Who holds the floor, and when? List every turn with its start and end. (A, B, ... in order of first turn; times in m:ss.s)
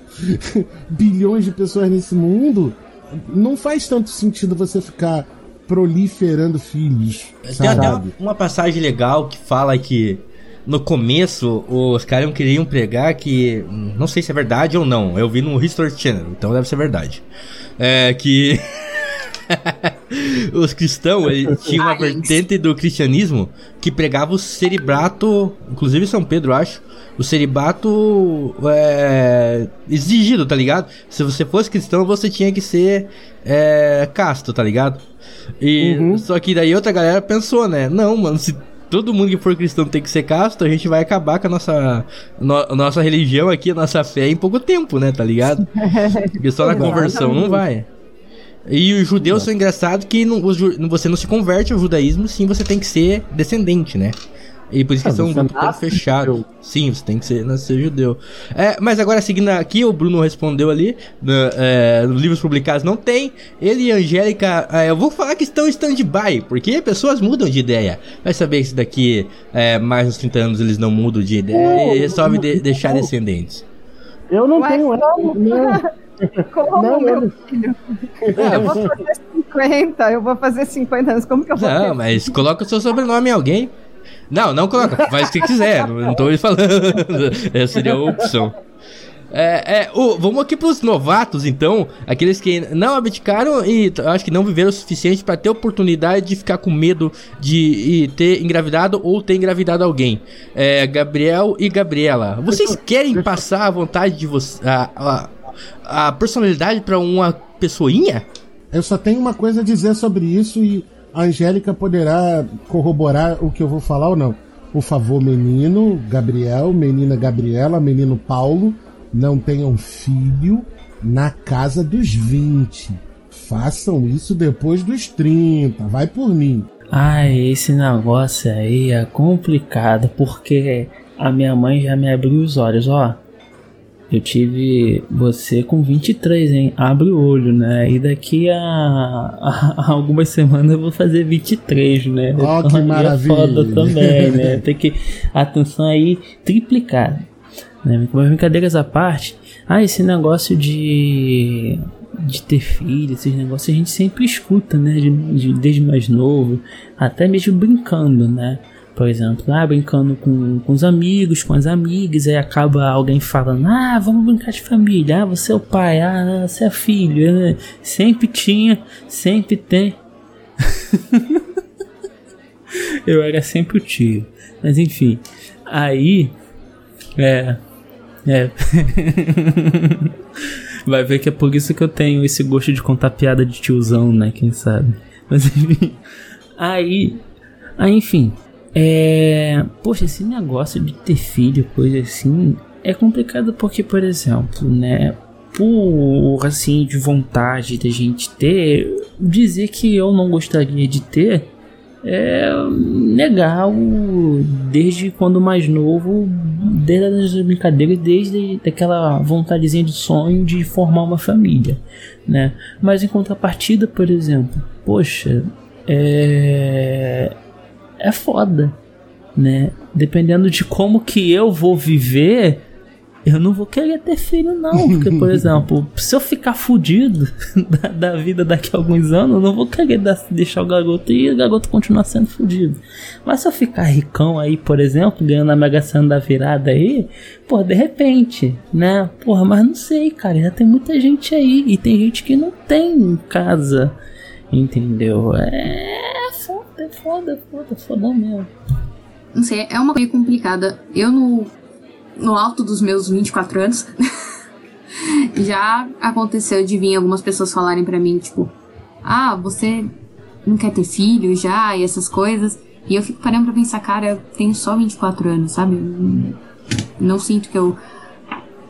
0:00.2-0:08.1 A
0:07.4-0:17.2 B
0:17.8-0:35.0 B
0:21.7-0:22.4 C
0:35.6-0:45.7 B
0:35.8-0:36.3 A
0:45.8-0:47.6 D
0:46.4-0:47.9 B
0:46.7-0:47.6 A
0:48.7-0:54.2 B
0:49.2-0:49.5 A
0:54.7-1:13.7 B
0:55.0-0:56.4 A
1:11.5-1:13.1 A
1:14.3-1:17.3 A
1:14.6-1:15.8 D
1:16.5-1:22.4 D
1:18.2-1:18.9 A
1:18.4-1:18.8 B
1:21.6-1:23.8 B
1:24.3-1:28.6 B
1:29.3-1:45.3 B
1:42.5-1:43.4 A
1:45.8-1:48.3 B
1:48.7-2:06.7 A
2:06.9-2:13.2 E
2:14.1-2:27.3 E
2:22.4-2:24.6 A
2:27.8-2:50.0 E
2:51.0-2:51.4 E
2:53.1-2:56.4 E
2:57.2-2:57.6 E
2:58.2-3:00.1 E
3:00.9-3:06.0 E
3:06.6-3:07.3 E
3:07.8-3:21.5 E
3:22.0-3:37.3 E
3:38.0-3:38.8 E
3:39.4-3:42.6 E
3:43.2-4:04.0 E
4:04.5-4:08.5 E
4:09.3-4:11.5 C
4:12.2-4:13.9 C
4:15.0-4:19.9 C
4:20.4-4:26.4 C
4:27.0-4:27.8 C